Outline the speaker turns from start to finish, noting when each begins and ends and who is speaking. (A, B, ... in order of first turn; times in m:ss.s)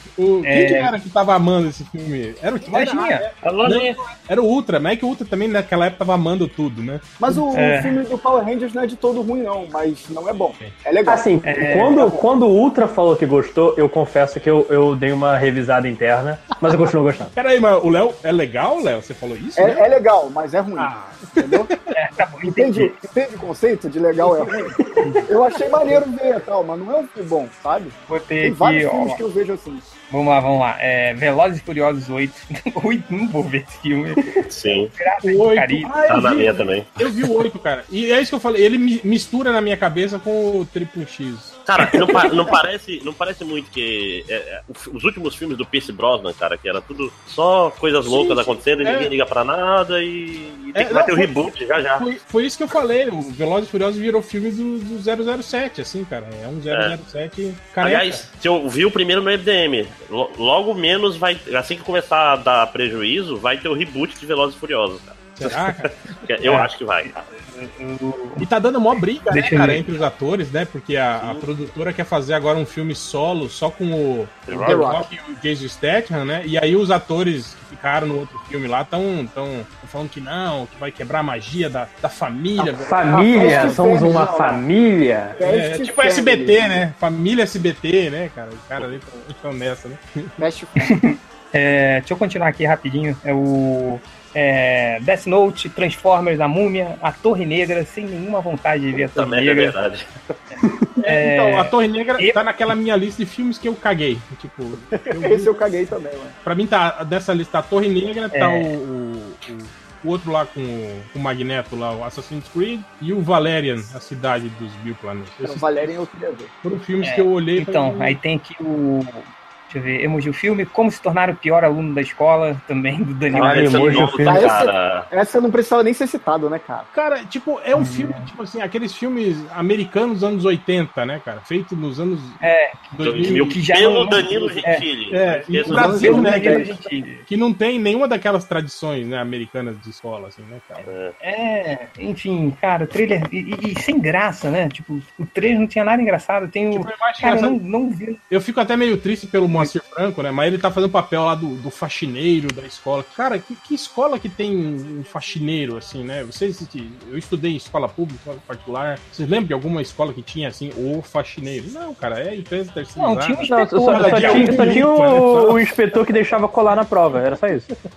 0:00.2-0:07.1 A
0:00.4-0:00.9 B
0:02.7-0:03.6 B
0:03.5-0:04.0 C
0:07.2-0:11.3 D
0:07.3-0:08.0 B
0:11.1-0:17.3 E
0:11.4-0:12.2 B
0:17.4-0:19.9 A
0:19.6-0:21.7 D
0:20.8-0:21.8 A
0:21.9-0:23.0 B
0:22.5-0:29.9 D
0:28.1-0:29.2 B
0:30.1-0:34.2 B
0:34.5-0:34.9 C
0:34.9-0:36.2 B
0:35.2-0:41.6 A
0:36.1-0:37.0 C
0:41.6-0:52.1 C
0:41.8-0:42.3 B
0:48.0-0:49.1 A
0:50.8-0:58.2 A
0:56.7-0:57.0 C
0:57.8-1:07.2 C
1:05.4-1:06.6 A
1:06.4-1:08.4 B
1:08.4-1:24.2 A
1:09.3-1:09.8 B
1:11.2-1:11.5 C
1:14.5-1:14.8 C
1:14.6-1:15.1 D
1:22.6-1:25.4 E
1:23.1-1:24.6 D
1:25.4-1:30.3 A
1:25.4-1:26.8 D
1:30.4-1:30.9 D
1:30.8-1:39.8 B
1:39.2-1:40.1 C
1:40.6-1:40.9 E
1:41.0-1:45.5 A
1:41.0-1:42.4 B
1:45.1-1:46.4 D
1:46.4-1:55.6 A
1:48.3-1:48.7 B
1:55.4-1:56.5 D
1:56.6-1:58.2 A
1:57.0-2:04.2 B
2:03.3-2:04.6 E
2:03.3-2:05.1 C
2:04.2-2:06.9 D
2:06.9-2:12.4 A
2:07.7-2:08.3 B
2:12.4-2:14.9 B
2:12.9-2:13.6 A
2:13.0-2:16.3 C
2:15.1-2:20.9 A
2:15.6-2:16.8 D
2:15.9-2:17.2 B
2:20.8-2:21.1 C
2:21.2-2:28.2 B
2:26.7-2:27.6 A
2:28.3-2:45.6 A
2:43.0-2:44.9 B
2:43.5-2:47.7 E
2:44.3-2:44.6 D